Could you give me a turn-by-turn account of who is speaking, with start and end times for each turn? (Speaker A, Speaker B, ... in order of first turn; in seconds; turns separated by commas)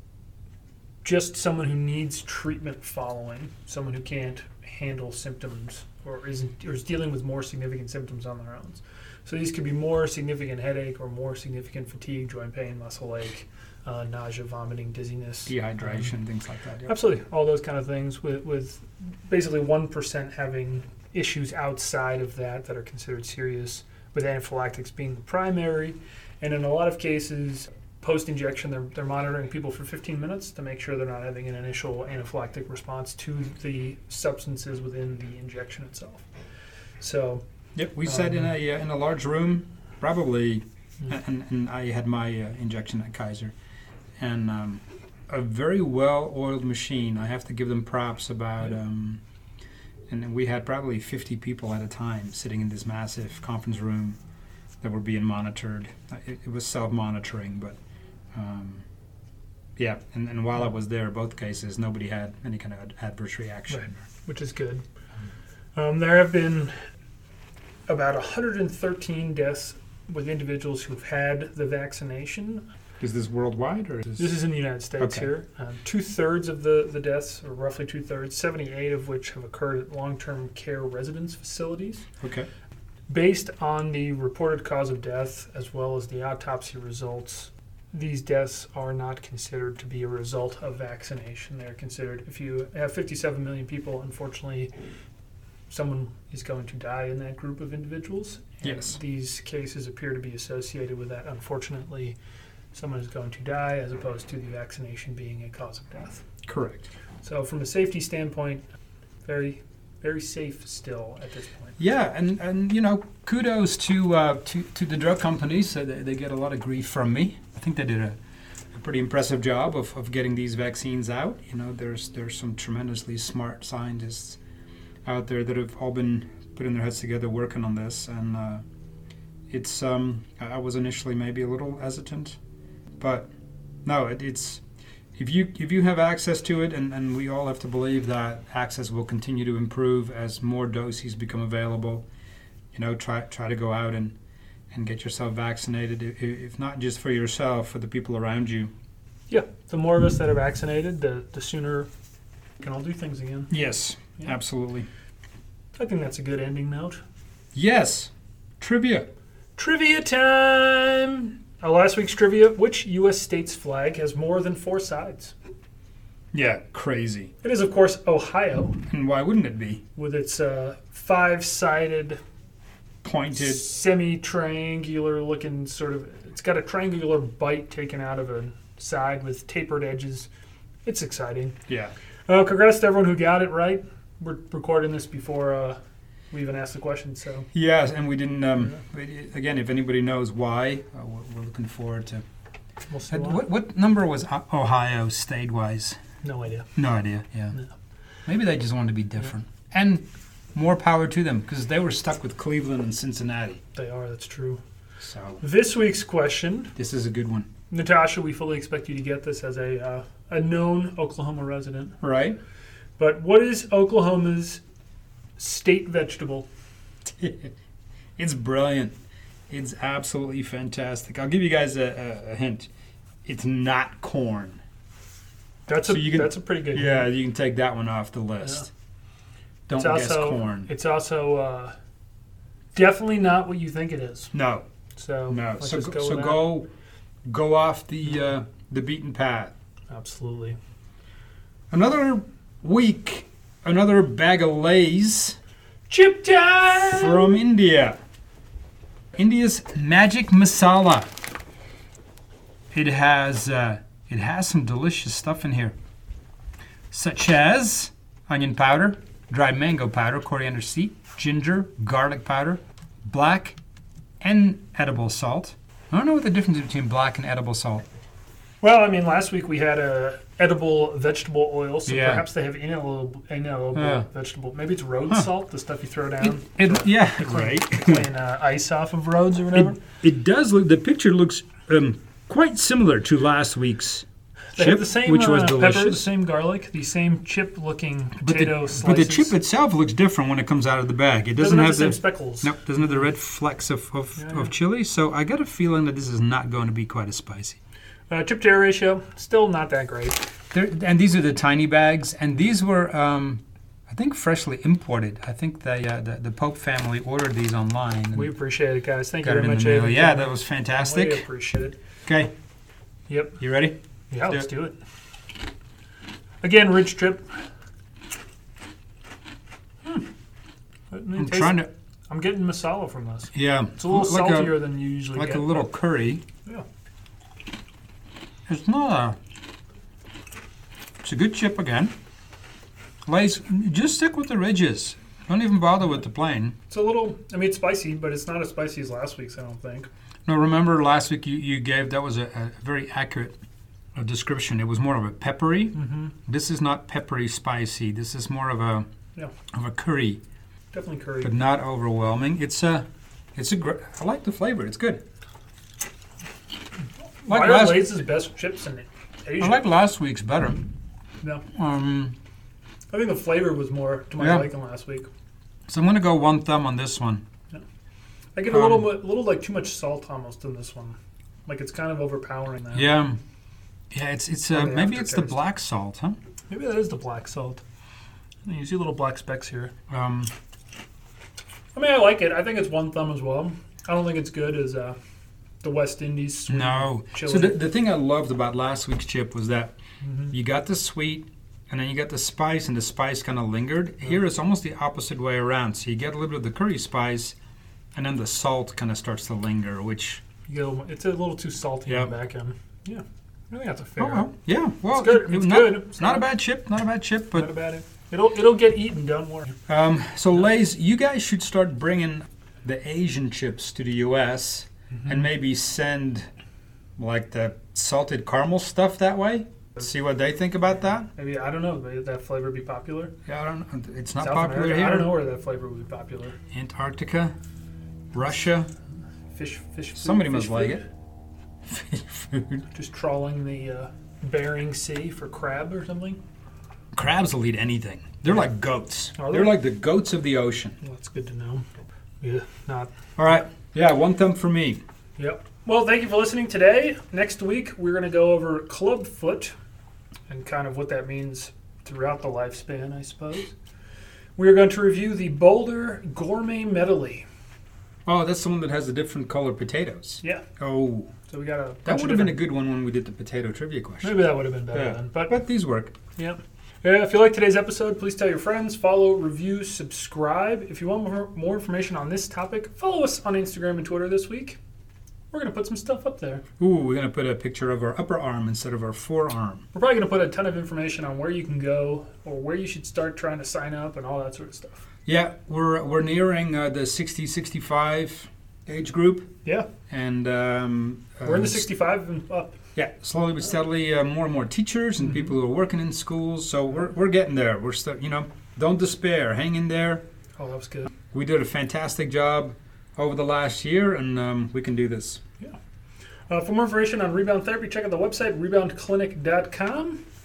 Speaker A: 1.0-16.1, Speaker B: 15.5-17.0, Speaker A: 16.9-36.3, Speaker A: 37.0-37.4, Speaker B: 37.8-43.5, Speaker A: 38.1-38.5, Speaker B: 44.2-49.2, Speaker B: 50.1-54.2, Speaker B: 54.8-57.8, Speaker B: 58.4-58.8, Speaker B: 59.8-64.1, Speaker A: 63.7-64.8, Speaker A: 65.8-66.7, Speaker A: 67.9-72.7, Speaker B: 73.0-74.4, Speaker A: 74.2-82.0, Speaker B: 75.0-75.3, Speaker B: 82.2-82.5, Speaker A: 83.1-94.7, Speaker A: 95.7-102.2, Speaker B: 98.6-99.0, Speaker A: 102.7-106.2, Speaker B: 106.5-106.9, Speaker A: 107.2-108.6, Speaker A: 109.2-111.8, Speaker B: 111.8-118.2, Speaker B: 118.7-124.4, Speaker B: 125.1-128.6, Speaker B: 129.5-132.4, Speaker B: 133.0-133.3, Speaker B: 133.8-134.6, Speaker B: 135.2-142.1, Speaker B: 142.7-144.2, Speaker B: 144.7-148.7, Speaker A: 149.3-151.9, Speaker A: 152.6-153.5, Speaker B: 153.5-154.9, Speaker A: 155.8-157.0, Speaker B: 157.5-159.1, Speaker A: 159.6-165.3, Speaker B: 166.3-167.3, Speaker A: 167.4-168.8, Speaker B: 168.9-169.8, Speaker A: 170.0-172.2, Speaker B: 173.0-173.7, Speaker A: 173.3-180.3, Speaker A: 180.8-181.6, Speaker B: 181.7-181.9, Speaker A: 182.3-185.8, Speaker A: 186.3-187.5, Speaker B: 187.5-192.2, Speaker A: 192.9-193.4, Speaker B: 193.1-196.0, Speaker A: 196.2-196.7, Speaker B: 196.8-197.6, Speaker B: 198.3-203.6, Speaker A: 203.8-204.6, Speaker B: 205.0-205.4, Speaker A: 205.4-206.7, Speaker B: 206.8-207.5, Speaker A: 207.7-212.0, Speaker B: 212.0-212.4, Speaker A: 213.0-214.6, Speaker A: 215.4-216.5, Speaker B: 217.1-217.5, Speaker B: 218.2-218.9, Speaker B: 219.5-222.7, Speaker B: 223.2-224.6, Speaker A: 225.7-227.1, Speaker B: 225.8-228.7, Speaker B: 229.7-230.7, Speaker A: 229.8-231.8, Speaker A: 232.7-234.3, Speaker B: 234.3-234.7, Speaker A: 235.0-236.5, Speaker B: 235.3-236.7, Speaker B: 237.3-239.5, Speaker A: 239.9-240.6, Speaker B: 241.7-245.4, Speaker A: 245.9-247.4, Speaker B: 246.9-248.0, Speaker B: 249.2-251.1, Speaker B: 252.7-255.8, Speaker B: 256.9-263.6, Speaker B: 264.2-267.9, Speaker A: 268.6-279.8, Speaker B: 271.9-272.2, Speaker B: 273.8-274.1, Speaker B: 276.2-278.0, Speaker B: 279.5-284.1, Speaker A: 284.5-289.4, Speaker B: 284.6-286.1, Speaker B: 288.2-297.6, Speaker A: 291.4-292.6, Speaker A: 294.2-294.5, Speaker A: 298.1-300.3, Speaker B: 300.5-308.3, Speaker A: 308.1-311.8, Speaker B: 309.2-311.3, Speaker B: 312.1-312.3, Speaker A: 313.1-313.4, Speaker B: 313.4-314.5, Speaker A: 314.1-314.8, Speaker A: 316.4-317.4, Speaker A: 320.9-325.7, Speaker B: 321.2-321.7, Speaker B: 323.3-326.2, Speaker B: 328.5-329.2, Speaker B: 331.0-331.9, Speaker B: 333.1-336.6, Speaker A: 336.7-339.9, Speaker B: 340.3-343.4, Speaker B: 343.9-348.9, Speaker A: 345.7-346.1, Speaker B: 349.5-350.2, Speaker A: 350.7-351.3, Speaker B: 351.2-352.9, Speaker B: 353.4-355.0, Speaker A: 357.2-359.7, Speaker B: 357.3-358.0, Speaker B: 359.4-360.7, Speaker B: 361.5-362.2, Speaker A: 362.9-365.1, Speaker B: 364.2-364.5, Speaker B: 365.7-367.2, Speaker A: 368.4-373.0, Speaker B: 368.5-368.9, Speaker B: 372.7-373.2, Speaker B: 373.9-376.2, Speaker A: 374.5-375.4, Speaker A: 376.5-377.6, Speaker A: 378.5-379.7, Speaker B: 379.9-380.3, Speaker A: 381.7-385.0, Speaker A: 385.6-387.6, Speaker B: 386.5-389.8, Speaker A: 390.0-390.3, Speaker B: 390.3-397.4, Speaker B: 397.9-400.2, Speaker A: 400.5-404.3, Speaker B: 401.9-402.1, Speaker B: 404.0-407.5, Speaker A: 404.9-406.3, Speaker A: 407.4-409.6, Speaker B: 409.7-416.3, Speaker A: 415.0-415.2, Speaker B: 417.0-421.1, Speaker A: 421.2-423.1, Speaker B: 423.3-425.2, Speaker A: 424.2-426.4, Speaker B: 426.5-427.4, Speaker B: 428.1-428.7, Speaker A: 429.3-430.9, Speaker B: 430.0-430.8, Speaker B: 431.6-432.6, Speaker A: 432.7-436.2, Speaker B: 436.9-440.8, Speaker A: 439.2-439.6, Speaker A: 440.8-441.6, Speaker A: 442.2-442.9, Speaker B: 443.2-444.8, Speaker A: 445.2-449.5, Speaker A: 450.3-453.5, Speaker A: 454.4-457.2, Speaker B: 458.1-461.1, Speaker A: 461.3-462.4, Speaker B: 461.9-465.9, Speaker A: 464.0-465.4, Speaker A: 466.2-474.6, Speaker A: 475.3-476.4, Speaker B: 476.6-479.6, Speaker A: 479.7-484.8, Speaker B: 485.1-489.3, Speaker A: 489.4-489.7, Speaker B: 489.9-491.7, Speaker A: 491.2-492.6, Speaker B: 492.8-500.1, Speaker A: 500.4-500.9, Speaker B: 501.1-505.2, Speaker A: 506.3-510.0